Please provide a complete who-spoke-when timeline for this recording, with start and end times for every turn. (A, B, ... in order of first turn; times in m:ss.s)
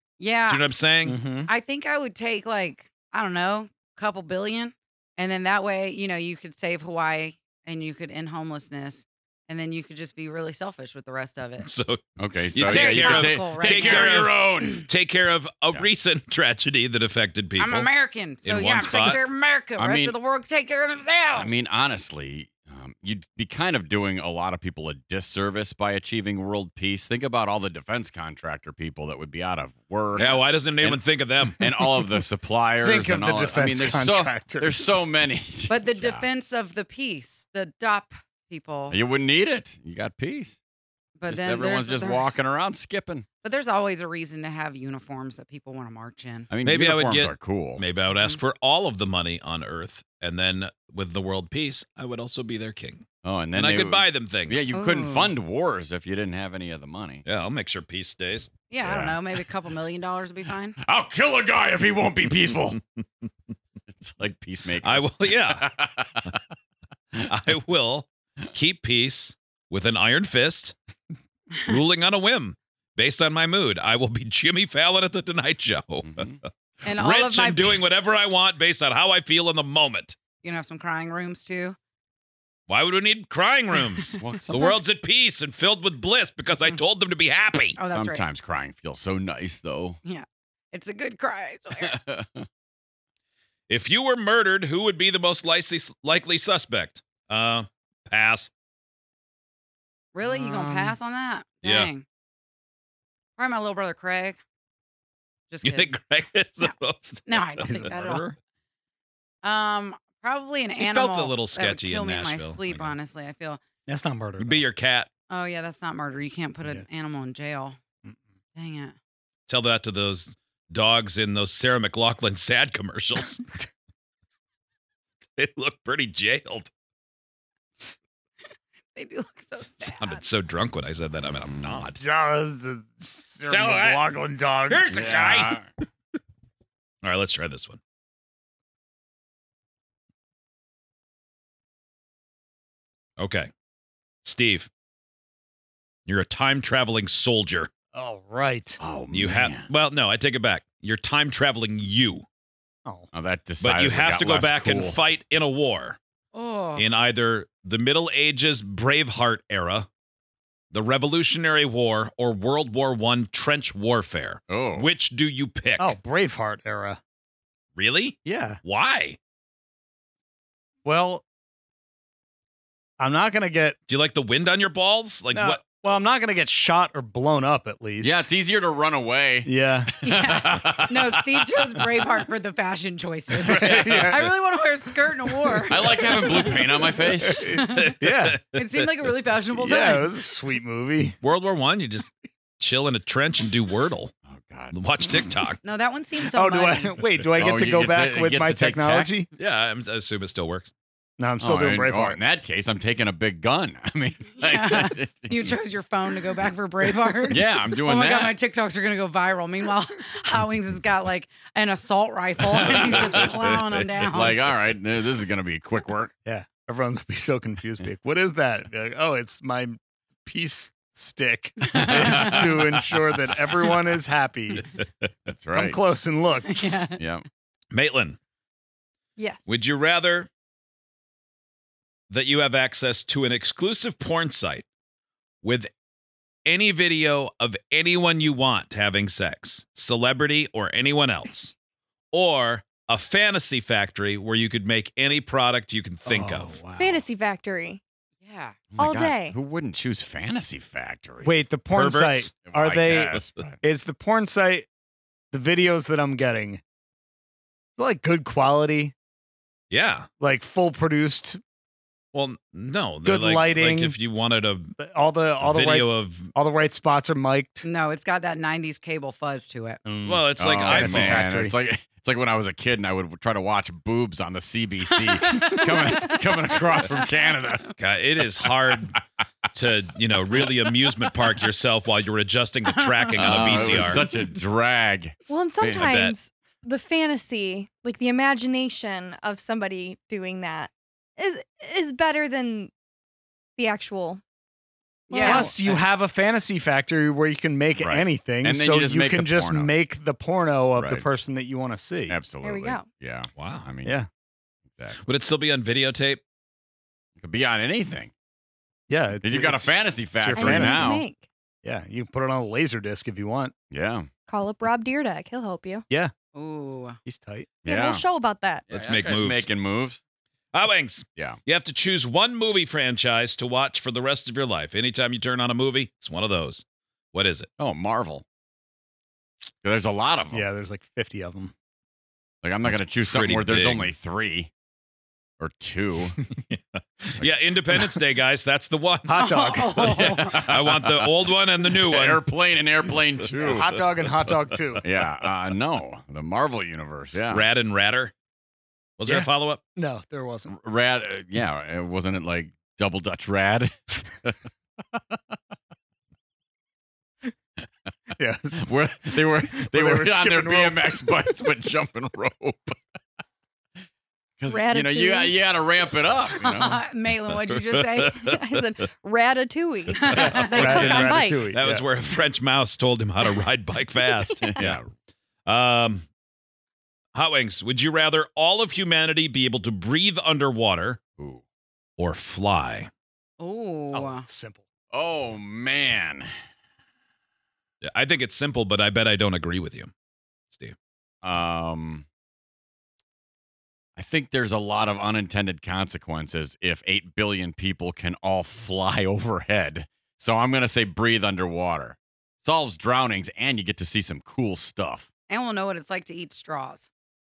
0:00.2-0:00.6 A
0:00.5-0:01.2 B
0:01.0-0:01.5 C
0:01.5-0:11.6 A
0:11.6-0:12.0 B
0:12.2-0:14.7 D
0:12.5-0:17.9 B
0:12.6-0:14.9 A
0:17.6-0:21.6 A
0:18.4-0:19.2 B
0:19.8-0:20.1 D
0:21.4-0:31.0 D
0:30.2-0:31.6 B
0:31.6-0:36.2 D
0:32.8-0:35.0 C
0:35.6-0:39.0 A
0:38.9-0:40.6 D
0:41.2-0:42.4 A
0:41.3-0:43.3 D
0:43.4-0:46.5 A
0:46.5-0:47.8 D
0:46.6-0:54.7 B
0:53.2-0:57.2 D
0:54.7-0:55.4 A
0:57.2-0:59.0 B
0:58.7-1:00.8 A
1:00.8-1:02.8 D
1:03.9-1:06.4 D
1:04.8-1:05.7 B
1:07.2-1:10.8 B
1:11.6-1:20.2 B
1:16.8-1:17.8 A
1:20.4-1:21.8 A
1:22.7-1:27.8 B
1:24.2-1:24.8 D
1:27.8-1:28.3 A
1:27.9-1:30.0 D
1:30.0-1:32.0 A
1:31.8-1:32.5 D
1:33.7-1:38.5 B
1:40.1-1:42.1 A
1:41.6-1:41.9 B
1:43.4-1:44.4 A
1:45.5-1:45.9 A
1:45.6-1:48.4 B
1:47.3-1:48.3 A
1:49.4-1:53.6 A
1:50.8-1:53.0 B
1:53.9-1:54.7 C
1:54.4-1:55.1 B
1:55.3-1:57.8 A
1:58.6-1:59.0 A
1:59.5-2:03.4 B
2:05.4-2:06.7 B
2:08.9-2:10.2 A
2:09.8-2:12.0 B
2:12.0-2:15.6 C
2:13.5-2:14.1 B
2:14.7-2:15.6 B
2:15.0-2:15.7 D
2:17.0-2:17.8 B
2:23.2-2:23.5 B
2:24.2-2:24.7 B
2:26.1-2:27.7 B
2:27.9-2:28.8 C
2:28.8-2:29.7 D
2:29.1-2:32.2 B
2:33.1-2:35.0 D
2:33.6-2:36.0 B
2:36.3-2:36.9 A
2:36.8-2:39.9 B
2:40.7-2:46.0 B
2:44.5-2:44.9 D
2:45.8-2:47.0 C
2:47.8-2:49.2 B
2:48.3-2:48.6 C
2:50.8-2:51.2 C
2:53.0-2:53.8 C
2:53.9-2:55.6 B
2:55.3-2:58.3 C
2:58.0-3:01.1 D
2:59.4-2:59.9 C
3:00.0-3:08.0 A
3:03.4-3:04.3 B
3:03.4-3:04.2 C
3:05.7-3:07.3 D
3:07.2-3:08.4 C
3:07.6-3:08.6 B
3:08.6-3:10.1 A
3:09.6-3:11.2 C
3:11.2-3:14.1 B
3:14.3-3:14.8 D
3:14.7-3:15.6 B
3:15.6-3:17.0 A
3:16.2-3:19.3 C
3:17.3-3:19.2 D
3:19.4-3:20.7 B
3:21.2-3:22.2 C
3:21.4-3:25.5 D
3:24.3-3:34.6 A
3:27.3-3:28.3 D
3:32.6-3:33.4 D
3:34.0-3:36.1 D
3:36.2-3:44.7 C
3:41.6-3:42.5 A
3:42.4-3:42.8 D
3:45.3-3:45.8 D
3:45.5-3:46.7 C
3:46.5-3:47.1 A
3:47.0-3:47.2 D
3:47.7-3:48.2 B
3:49.2-3:49.4 E
3:49.5-3:50.3 B
3:52.1-3:54.7 B
3:55.4-3:55.7 B
3:56.5-4:01.5 B
4:02.1-4:06.6 B
4:06.1-4:07.0 C
4:06.8-4:07.8 E
4:08.2-4:08.7 A
4:08.7-4:11.4 D
4:08.8-4:09.4 E
4:11.2-4:14.7 C
4:11.7-4:12.3 B
4:12.5-4:13.6 D
4:15.3-4:16.6 C
4:17.8-4:18.9 C
4:19.7-4:20.1 B
4:20.2-4:21.4 C
4:22.1-4:24.8 B
4:23.0-4:24.0 C
4:24.8-4:27.6 C
4:25.4-4:26.3 B
4:27.6-4:29.8 A
4:29.8-4:31.6 C
4:30.1-4:31.3 B
4:30.4-4:37.7 D
4:34.9-4:37.7 A
4:37.8-4:39.0 B
4:39.5-4:44.1 B
4:42.7-4:44.4 A
4:43.2-4:45.8 D
4:45.3-4:52.7 E
4:45.8-4:46.2 B
4:53.6-4:54.2 E
4:55.1-4:55.6 E
4:55.2-4:55.8 A
4:55.2-5:02.2 C
4:57.8-4:59.8 D
5:00.7-5:01.1 D
5:02.1-5:04.0 D
5:02.4-5:02.9 E
5:03.4-5:03.7 B
5:04.7-5:05.0 D
5:05.0-5:06.2 B
5:07.2-5:08.1 D
5:08.9-5:11.0 C
5:09.2-5:11.0 D
5:10.4-5:11.2 E
5:11.6-5:13.5 C
5:13.7-5:14.1 D
5:14.3-5:15.8 E
5:16.4-5:17.0 A
5:17.1-5:17.5 C
5:17.6-5:18.6 E
5:17.7-5:18.0 D
5:18.7-5:20.0 D
5:18.7-5:19.5 B
5:20.5-5:27.5 B
5:27.6-5:28.2 D
5:29.6-5:30.5 D
5:30.3-5:31.5 C
5:32.4-5:34.5 D
5:32.7-5:33.9 B
5:35.4-5:36.2 D
5:36.5-5:42.2 B
5:39.1-5:40.1 C
5:39.2-5:40.6 A
5:40.1-5:41.1 D
5:41.7-5:43.7 D
5:43.4-5:44.8 C
5:44.8-5:47.5 D
5:47.3-5:48.1 B
5:49.0-5:49.6 B
5:49.1-5:50.5 C
5:50.5-5:54.4 D
5:58.2-5:58.6 C
5:58.6-6:02.8 D
5:59.1-6:00.9 C
6:04.4-6:06.8 D
6:04.5-6:05.4 E
6:06.3-6:08.2 A
6:08.0-6:08.6 B
6:08.0-6:11.5 E
6:09.9-6:10.7 A
6:10.0-6:11.8 C
6:10.0-6:14.8 B
6:14.2-6:14.6 E
6:14.5-6:14.9 D
6:15.5-6:16.1 B
6:17.2-6:21.0 B
6:22.0-6:22.9 B
6:23.4-6:24.3 A
6:23.9-6:24.6 C
6:24.9-6:26.3 D
6:27.8-6:29.9 B
6:31.2-6:32.1 D
6:34.0-6:45.1 D
6:45.3-6:46.9 A